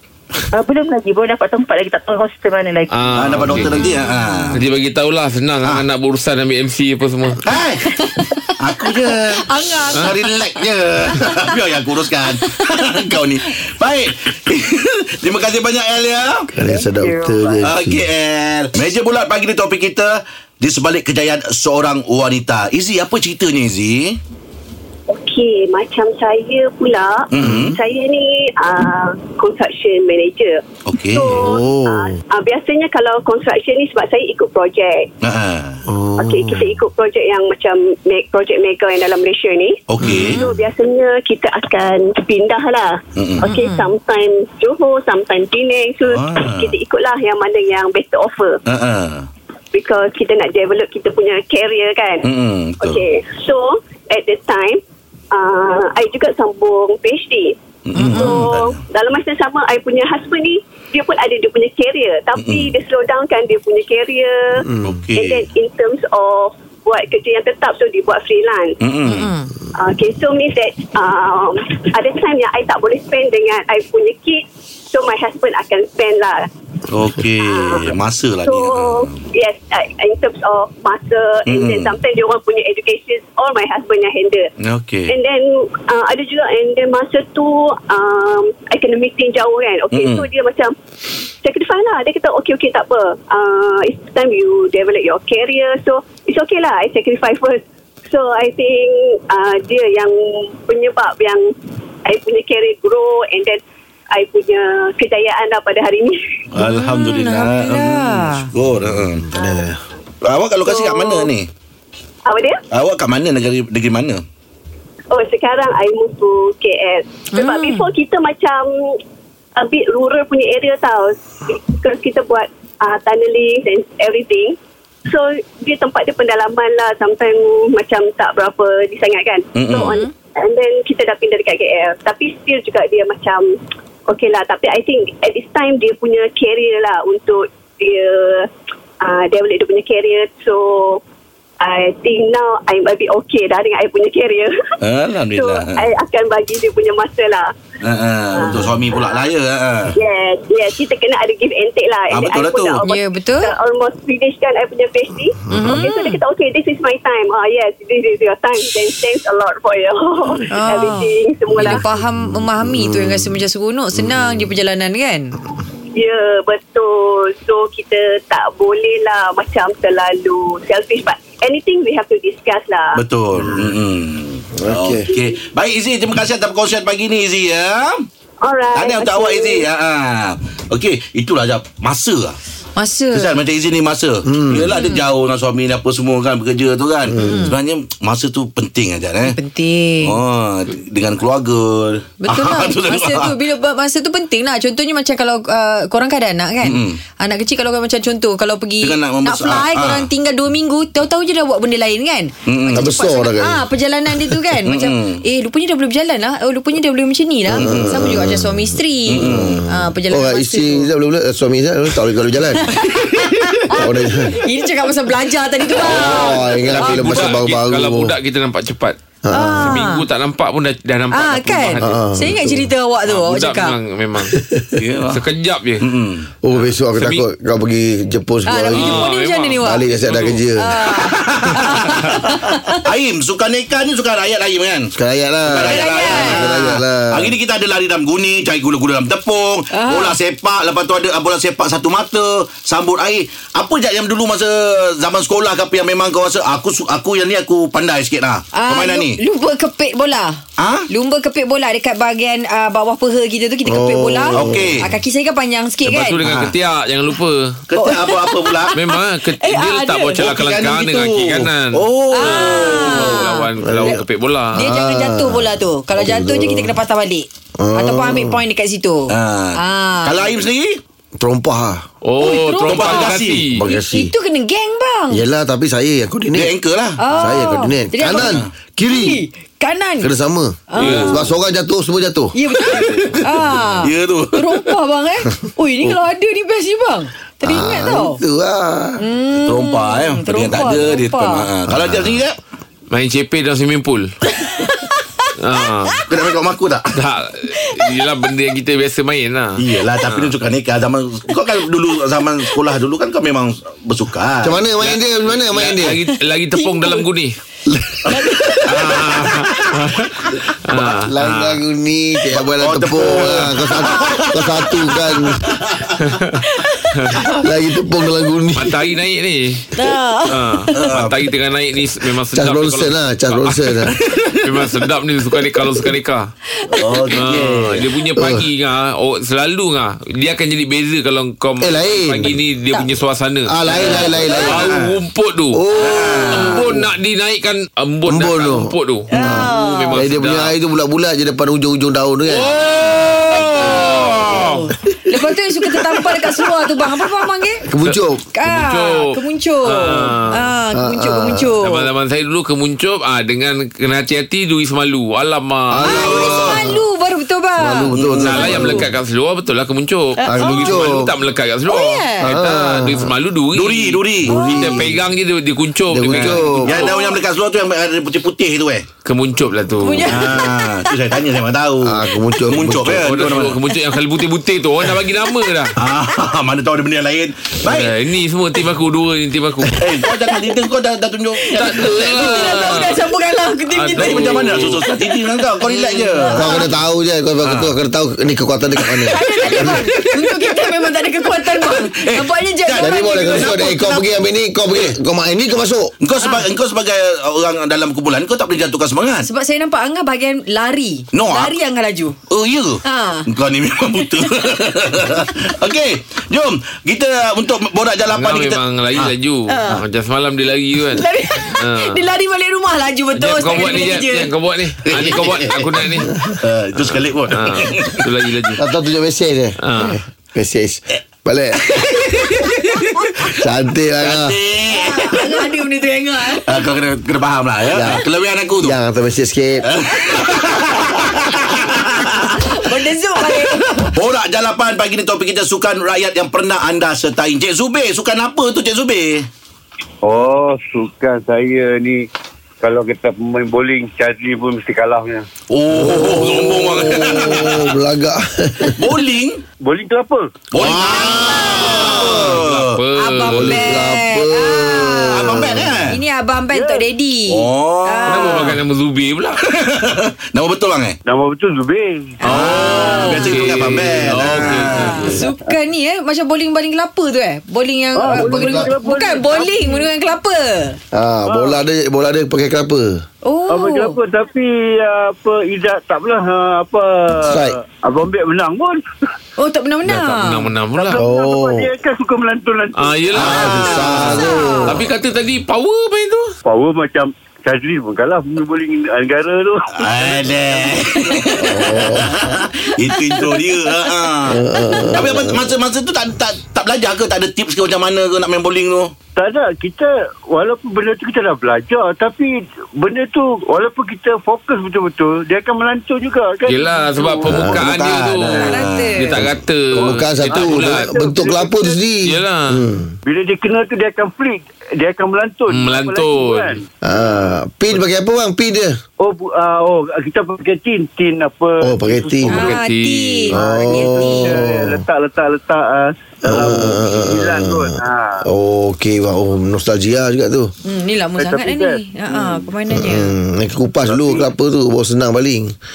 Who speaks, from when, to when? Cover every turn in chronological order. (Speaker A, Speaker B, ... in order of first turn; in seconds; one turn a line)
Speaker A: 0.5-2.9
Speaker B: 2.9-3.8
Speaker C: 3.1-4.6
Speaker D: 3.7-4.4
Speaker B: 4.5-7.4
Speaker C: 7.4-8.0
Speaker D: 7.8-10.2
Speaker C: 8.6-16.5
Speaker D: 11.1-11.6
Speaker D: 12.4-13.5
Speaker E: 16.5-18.0
Speaker A: 16.6-17.6
Speaker C: 17.6-24.2
Speaker F: 25.1-35.1
Speaker C: 27.3-27.8
Speaker E: 27.4-27.7
Speaker C: 30.9-31.4
Speaker E: 31.3-32.2
Speaker C: 35.2-35.8
Speaker E: 35.9-36.8
Speaker F: 36.2-48.6
Speaker C: 39.9-40.5
Speaker E: 40.0-40.4
Speaker C: 43.1-43.5
Speaker D: 43.4-43.9
Speaker C: 46.1-46.7
Speaker C: 48.6-49.3
Speaker F: 49.7-57.6
Speaker C: 52.2-53.0
Speaker C: 57.9-58.8
Speaker D: 58.0-58.4
Speaker F: 58.1-68.8
Speaker C: 62.4-62.7
Speaker E: 64.7-65.0
Speaker C: 64.8-65.5
Speaker C: 68.8-69.3
Speaker D: 69.0-69.5
Speaker F: 69.7-76.5
Speaker C: 76.9-79.2
Speaker F: 77.4-84.5
Speaker C: 81.5-81.9
Speaker C: 84.6-85.1
Speaker F: 85.1-90.7
Speaker C: 89.9-90.3
Speaker F: 91.4-101.5
Speaker F: 102.0-103.6
Speaker F: 104.1-106.2
Speaker C: 106.5-109.3
Speaker D: 106.6-108.5
Speaker E: 108.9-109.8
Speaker F: 109.4-109.7
Speaker C: 110.2-111.5
Speaker F: 110.7-111.3
Speaker F: 112.2-112.6
Speaker C: 112.7-114.2
Speaker F: 115.1-119.0
Speaker D: 117.3-117.9
Speaker F: 119.5-141.0
Speaker C: 129.5-130.0
Speaker D: 129.8-130.1
Speaker F: 141.6-144.7
Speaker C: 144.8-145.8
Speaker F: 145.3-147.5
Speaker C: 147.8-149.9
Speaker F: 148.3-149.2
Speaker F: 149.9-161.8
Speaker C: 152.1-152.8
Speaker D: 152.8-153.5
Speaker E: 155.5-155.8
Speaker D: 155.5-156.2
Speaker D: 160.5-165.3
Speaker E: 161.9-163.4
Speaker E: 163.9-164.4
Speaker F: 165.9-173.0
Speaker C: 172.9-178.1
Speaker E: 174.6-175.0
Speaker F: 178.4-179.7
Speaker C: 178.7-182.4
Speaker D: 182.8-183.3
Speaker C: 183.1-189.4
Speaker E: 184.2-184.7
Speaker D: 184.7-185.1
Speaker E: 187.1-187.4
Speaker D: 187.2-187.6
Speaker D: 189.2-190.2
Speaker C: 190.0-193.4
Speaker D: 192.2-210.9
Speaker C: 196.6-197.0
Speaker C: 198.8-200.1
Speaker C: 202.4-202.9
Speaker E: 202.7-203.6
Speaker C: 204.5-205.2
Speaker C: 207.5-208.1
Speaker E: 207.5-212.8
Speaker C: 209.1-209.6
Speaker D: 212.6-217.2
Speaker E: 213.7-214.4
Speaker E: 215.7-218.1
Speaker B: 216.7-218.9
Speaker E: 219.2-219.8
Speaker D: 219.3-220.0
Speaker B: 219.6-222.0
Speaker D: 221.1-223.8
Speaker E: 221.8-222.7
Speaker B: 223.1-224.4
Speaker E: 224.3-224.7
Speaker C: 224.8-225.2
Speaker B: 225.1-225.8
Speaker C: 225.8-226.3
Speaker E: 226.4-229.1
Speaker B: 226.9-227.2
Speaker D: 228.5-229.8
Speaker B: 228.7-230.4
Speaker E: 229.6-230.7
Speaker D: 230.6-232.8
Speaker C: 230.9-234.9
Speaker E: 234.9-237.3
Speaker C: 235.4-249.2
Speaker D: 235.6-236.5
Speaker D: 239.7-240.2
Speaker D: 248.5-256.2
Speaker C: 250.6-250.9
Speaker E: 253.7-254.8
Speaker C: 254.3-254.9
Speaker B: 255.8-257.6
Speaker C: 256.2-256.5
Speaker C: 257.7-258.8
Speaker D: 257.7-260.2
Speaker B: 258.7-264.6
Speaker C: 260.2-263.2
Speaker D: 262.1-264.0
Speaker E: 263.6-264.0
Speaker D: 264.5-270.2
Speaker E: 264.5-266.7
Speaker E: 267.6-268.4
Speaker C: 269.1-270.8
Speaker E: 271.2-271.8
Speaker B: 272.0-273.6
Speaker D: 272.2-275.2
Speaker C: 272.6-273.4
Speaker E: 273.5-274.1
Speaker E: 275.1-276.5
Speaker C: 276.3-277.0
Speaker D: 277.0-280.1
Speaker E: 277.1-279.2
Speaker C: 278.1-278.5
Speaker E: 280.0-282.3
Speaker D: 280.7-281.3
Speaker B: 280.8-281.3
Speaker D: 282.3-288.2
Speaker C: 282.6-283.3
Speaker C: 283.8-284.7
Speaker E: 287.4-289.0
Speaker D: 289.0-291.5
Speaker C: 289.4-292.4
Speaker E: 291.7-292.2
Speaker B: 292.9-294.1
Speaker D: 294.4-295.0
Speaker B: 295.4-296.0
Speaker C: 296.1-297.0
Speaker B: 296.9-300.3
Speaker D: 297.5-297.9
Speaker C: 299.6-304.6
Speaker E: 304.4-306.0
Speaker B: 304.8-307.4
Speaker D: 306.1-307.1
Speaker E: 307.7-308.6
Speaker D: 308.1-308.7
Speaker C: 308.5-309.0
Speaker B: 308.7-311.6
Speaker E: 310.7-315.5
Speaker C: 312.4-314.5
Speaker C: 315.4-316.0
Speaker B: 316.0-316.4
Speaker D: 316.4-317.3
Speaker E: 317.4-318.8
Speaker B: 318.6-319.7
Speaker D: 319.7-320.8
Speaker B: 320.3-323.8
Speaker C: 320.7-321.2
Speaker E: 322.3-323.9
Speaker C: 323.9-324.5
Speaker B: 324.4-326.3
Speaker D: 326.6-327.2
Speaker C: 326.7-327.9
Speaker B: 327.1-335.6
Speaker E: 328.1-328.4
Speaker E: 331.6-332.3
Speaker E: 333.5-334.8
Speaker C: 333.7-334.9
Speaker E: 335.5-336.9
Speaker C: 335.8-336.6
Speaker B: 336.3-340.5
Speaker E: 338.1-342.5
Speaker D: 339.1-340.0
Speaker B: 342.3-344.7
Speaker D: 343.4-347.6
Speaker E: 343.6-344.4
Speaker E: 347.6-348.2
Speaker B: 347.8-350.5
Speaker D: 348.3-351.9
Speaker E: 350.7-351.6
Speaker B: 351.6-356.4
Speaker E: 355.7-356.8
Speaker D: 355.9-358.9
Speaker C: 356.1-356.5
Speaker E: 357.6-358.9
Speaker C: 357.9-358.6
Speaker B: 358.1-366.5
Speaker D: 360.2-360.8
Speaker E: 360.3-361.1
Speaker D: 361.7-362.3
Speaker E: 362.2-363.1
Speaker C: 363.5-364.4
Speaker E: 364.2-365.0
Speaker D: 364.3-364.7
Speaker E: 365.9-366.9
Speaker C: 366.1-368.9
Speaker D: 366.6-367.2
Speaker B: 369.0-370.2
Speaker D: 369.8-371.0
Speaker C: 370.1-373.6
Speaker E: 371.8-373.2
Speaker B: 372.9-375.7
Speaker C: 375.8-377.9
Speaker B: 377.6-379.8
Speaker C: 379.8-382.9
Speaker D: 380.1-380.5
Speaker D: 381.4-386.6
Speaker B: 381.5-382.9
Speaker B: 383.7-384.8
Speaker C: 383.9-386.6
Speaker E: 386.4-389.8
Speaker C: 387.4-387.7
Speaker C: 388.9-390.4
Speaker D: 389.1-394.0
Speaker C: 391.4-394.0
Speaker E: 392.8-395.9
Speaker C: 396.0-399.3
Speaker D: 396.2-396.4
Speaker D: 399.2-402.2
Speaker C: 401.1-401.6
Speaker C: 402.3-409.1
Speaker D: 402.8-403.3
Speaker D: 404.0-404.5
Speaker B: 408.1-412.0
Speaker D: 409.5-409.8
Speaker D: 410.9-414.3
Speaker B: 413.1-416.1
Speaker C: 414.8-418.1
Speaker B: 416.8-418.6
Speaker E: 418.6-422.2
Speaker B: 419.6-420.0
Speaker D: 421.9-423.1
Speaker E: 423.3-424.3
Speaker C: 424.0-425.4
Speaker D: 424.7-426.6
Speaker C: 426.4-428.7
Speaker E: 427.7-428.0
Speaker E: 428.6-429.7
Speaker C: 429.6-432.6
Speaker D: 430.0-433.9
Speaker C: 433.2-439.3
Speaker G: 440.0-442.1
Speaker G: 442.6-445.2
Speaker C: 445.5-447.7
Speaker E: 445.7-448.9
Speaker C: 448.8-449.4
Speaker G: 449.6-450.4
Speaker C: 450.5-452.8
Speaker D: 450.6-452.0
Speaker E: 450.6-452.4
Speaker B: 451.2-453.8
Speaker D: 453.0-458.5
Speaker E: 453.3-455.8
Speaker C: 455.1-456.0
Speaker G: 456.5-456.9
Speaker C: 457.3-458.4
Speaker B: 458.1-459.4
Speaker C: 459.4-461.0
Speaker G: 461.1-462.2
Speaker D: 462.2-463.5
Speaker B: 462.3-465.2
Speaker C: 462.3-465.1
Speaker D: 464.7-470.8
Speaker G: 465.2-465.5
Speaker G: 467.9-469.9
Speaker E: 468.1-468.7
Speaker E: 470.9-473.0
Speaker G: 471.3-471.6
Speaker D: 473.2-474.0
Speaker G: 473.5-478.8
Speaker E: 477.2-477.6
Speaker D: 479.4-480.5
Speaker B: 479.9-481.0
Speaker G: 480.7-483.3
Speaker E: 481.0-481.7
Speaker B: 482.8-483.9
Speaker C: 483.2-484.2
Speaker E: 483.2-484.9
Speaker D: 483.2-484.8
Speaker B: 484.6-486.3
Speaker G: 486.4-491.3
Speaker C: 489.7-498.9
Speaker E: 491.4-492.3
Speaker D: 492.6-493.6
Speaker E: 494.2-495.5
Speaker D: 494.6-494.9
Speaker G: 499.1-507.3
Speaker B: 506.4-511.0
Speaker E: 507.3-507.6
Speaker C: 507.5-509.0
Speaker D: 508.4-509.1
Speaker E: 509.2-512.9
Speaker G: 510.2-511.8
Speaker B: 512.0-512.6
Speaker G: 513.0-516.6
Speaker B: 515.5-516.6
Speaker E: 516.8-518.8
Speaker G: 519.0-522.6
Speaker E: 521.6-522.4
Speaker B: 522.3-523.3
Speaker D: 522.3-524.4
Speaker G: 523.3-528.2
Speaker E: 523.4-524.8
Speaker E: 526.3-530.5
Speaker D: 530.6-533.1
Speaker G: 531.2-532.5
Speaker E: 532.7-535.5
Speaker G: 533.9-534.3